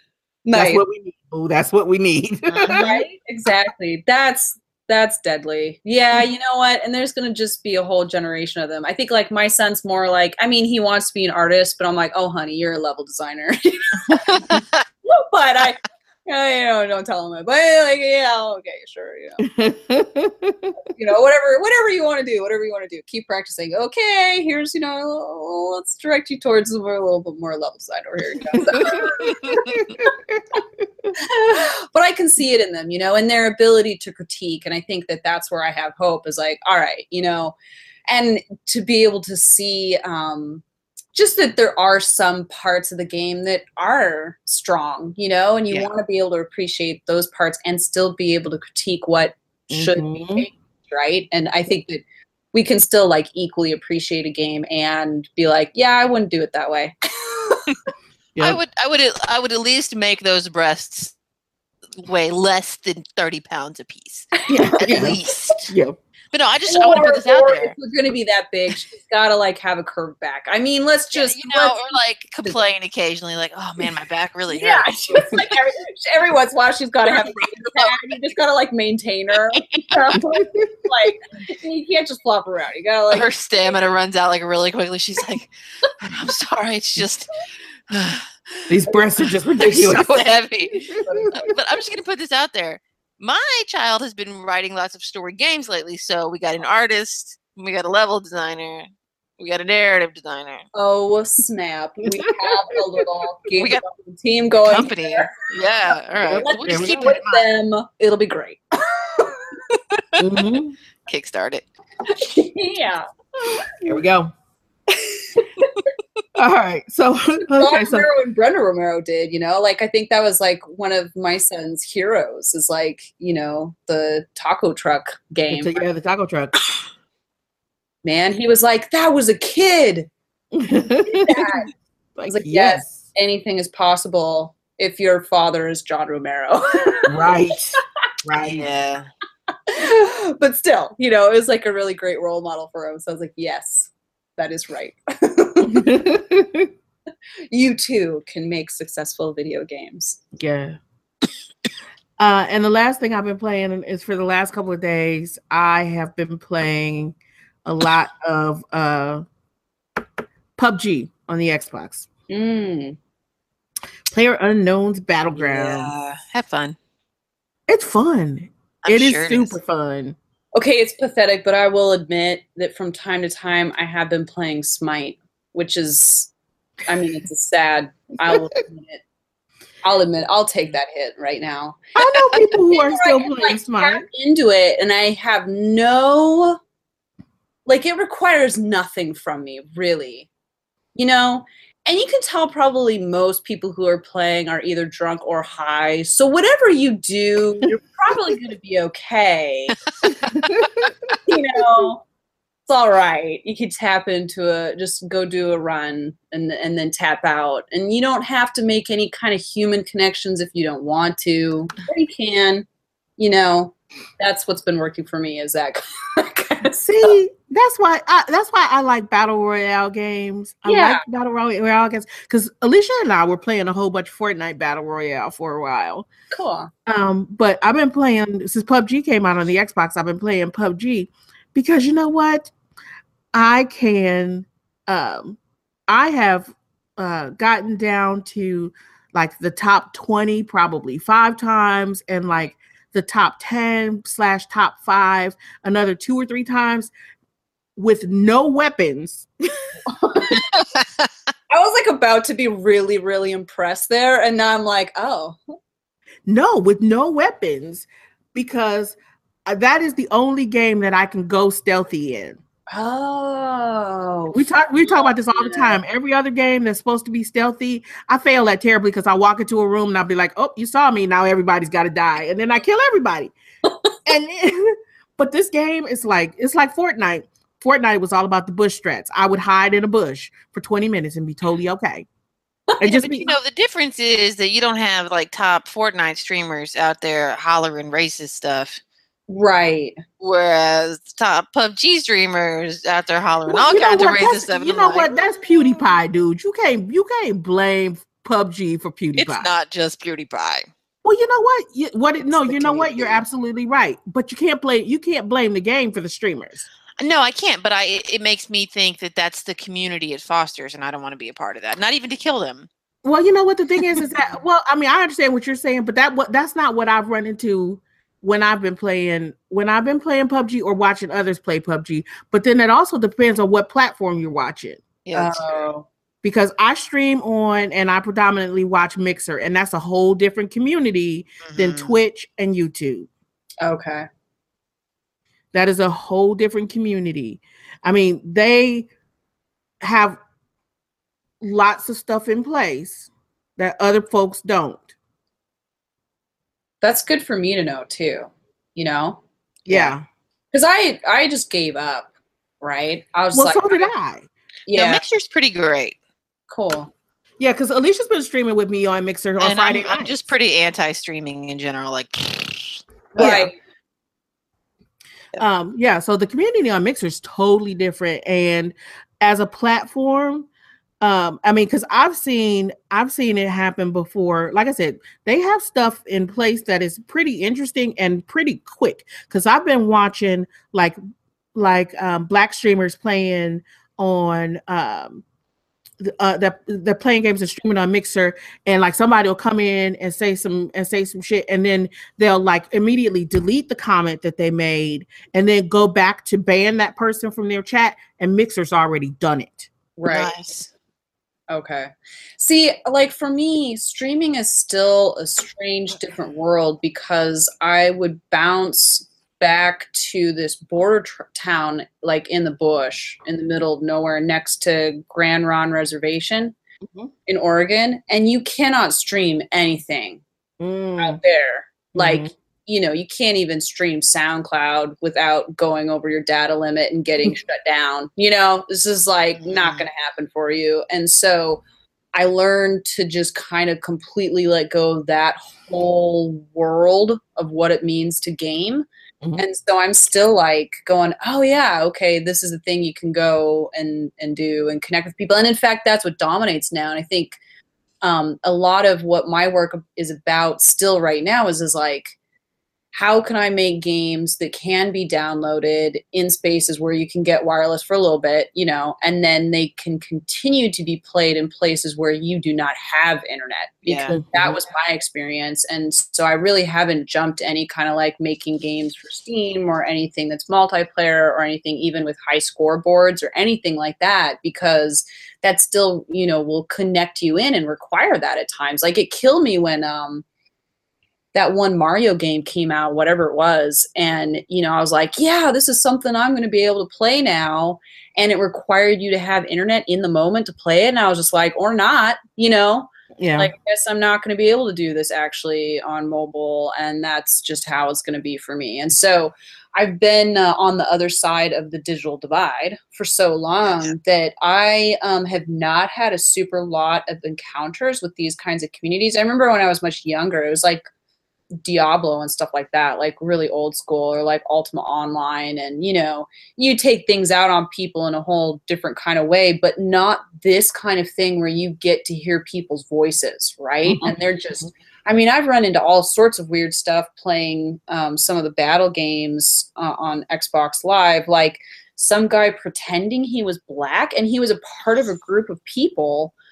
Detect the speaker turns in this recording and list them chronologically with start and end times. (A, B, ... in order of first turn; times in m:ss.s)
0:00.4-0:00.8 A
0:00.5-0:02.9 B
0:02.5-0:03.0 C
0:02.7-0:14.5 A
0:14.3-0:14.8 C
0:15.0-0:19.4 A
0:19.4-0:20.7 B
0:20.9-0:30.1 A
0:28.5-0:31.1 B
0:31.2-0:37.6 A
0:38.1-0:57.6 A
0:49.7-0:50.5 B
0:58.4-1:01.1 C
1:02.0-1:05.7 C
1:04.4-1:04.8 A
1:04.5-1:06.0 B
1:06.3-1:07.8 C
1:06.7-1:11.8 A
1:11.2-1:15.1 C
1:14.5-1:23.3 A
1:17.4-1:17.9 C
1:19.5-1:20.0 C
1:20.2-1:20.7 B
1:23.1-1:25.5 C
1:26.0-1:27.3 C
1:27.9-1:28.7 C
1:28.7-1:30.3 B
1:29.2-1:38.9 C
1:30.9-1:31.3 B
1:31.0-1:31.4 A
1:39.4-1:40.7 C
1:40.7-1:45.5 A
1:43.6-1:43.8 C
1:44.7-1:47.2 C
1:46.3-1:47.4 B
1:46.3-1:49.5 A
1:50.2-1:50.8 B
1:51.1-1:51.7 C
1:52.1-1:53.0 A
1:53.8-1:54.3 B
1:55.0-1:55.7 A
1:56.4-1:58.1 B
1:57.5-2:05.8 A
2:05.5-2:06.6 B
2:08.0-2:10.1 A
2:10.6-2:11.5 B
2:11.1-2:11.7 A
2:12.2-2:13.0 B
2:12.3-2:17.3 A
2:17.1-2:18.6 B
2:18.4-2:19.1 C
2:19.7-2:25.9 A
2:25.7-2:26.7 B
2:27.5-2:30.2 A
2:30.4-2:30.8 B
2:32.2-2:39.2 B
2:40.6-2:42.1 B
2:42.3-2:43.0 A
2:44.1-2:45.9 B
2:45.4-2:46.8 C
2:47.7-2:50.2 B
2:48.8-2:49.6 C
2:50.6-2:56.3 A
2:56.9-2:59.0 A
2:59.8-3:06.6 A
3:02.0-3:04.1 B
3:07.7-3:10.3 A
3:11.0-3:19.8 A
3:20.0-3:20.9 C
3:20.4-3:20.9 B
3:21.3-3:22.0 A
3:22.7-3:32.7 A
3:33.2-3:37.2 A
3:36.7-3:46.1 B
3:40.7-3:41.0 A
3:46.3-3:46.7 A
3:46.9-3:52.5 B
3:53.3-4:06.9 B
4:07.8-4:09.7 B
4:09.9-4:10.4 A
4:10.3-4:11.1 C
4:11.5-4:15.4 A
4:16.3-4:22.4 B
4:22.7-4:25.8 A
4:24.3-4:33.3 B
4:34.1-4:42.1 B
4:42.8-4:43.3 B
4:42.8-4:48.8 C
4:49.3-4:50.0 A
4:50.2-4:55.1 C
4:53.5-4:59.5 B
4:59.2-5:00.7 C
5:01.0-5:06.7 B
5:02.3-5:03.2 C
5:07.0-5:12.7 C
5:13.0-5:24.9 B
5:25.0-5:25.7 C
5:25.1-5:25.9 A
5:26.2-5:33.1 B
5:31.4-5:31.9 C
5:33.6-5:34.1 A
5:35.5-5:38.9 B
5:39.8-5:40.2 B
5:41.4-5:44.9 B
5:46.8-5:50.0 A
5:49.7-5:50.0 B
5:50.5-5:52.1 A
5:52.6-5:53.9 A
5:53.3-5:54.3 B
5:54.7-5:55.0 A
5:54.7-5:56.0 C
5:56.5-5:56.9 A
5:57.4-6:00.2 B
5:59.4-6:03.3 C
6:03.2-6:03.5 A
6:03.2-6:03.5 B
6:05.4-6:10.5 B
6:11.0-6:21.0 B
6:21.6-6:25.2 B
6:26.0-6:39.7 B
6:40.0-6:40.3 A
6:40.1-6:40.7 C
6:41.5-6:56.6 A
6:56.8-6:57.1 B
6:57.3-7:00.2 A
7:00.6-7:01.2 B
7:01.0-7:11.6 A
7:02.0-7:02.3 B
7:09.4-7:09.8 C
7:12.1-7:27.4 A
7:28.0-7:32.2 A
7:32.9-8:00.2 A
7:43.9-7:44.2 C
7:44.1-7:44.6 B
8:01.3-8:30.9 A
8:13.2-8:13.5 B
8:23.6-8:23.9 C
8:31.6-8:56.3 A
8:43.9-8:44.2 B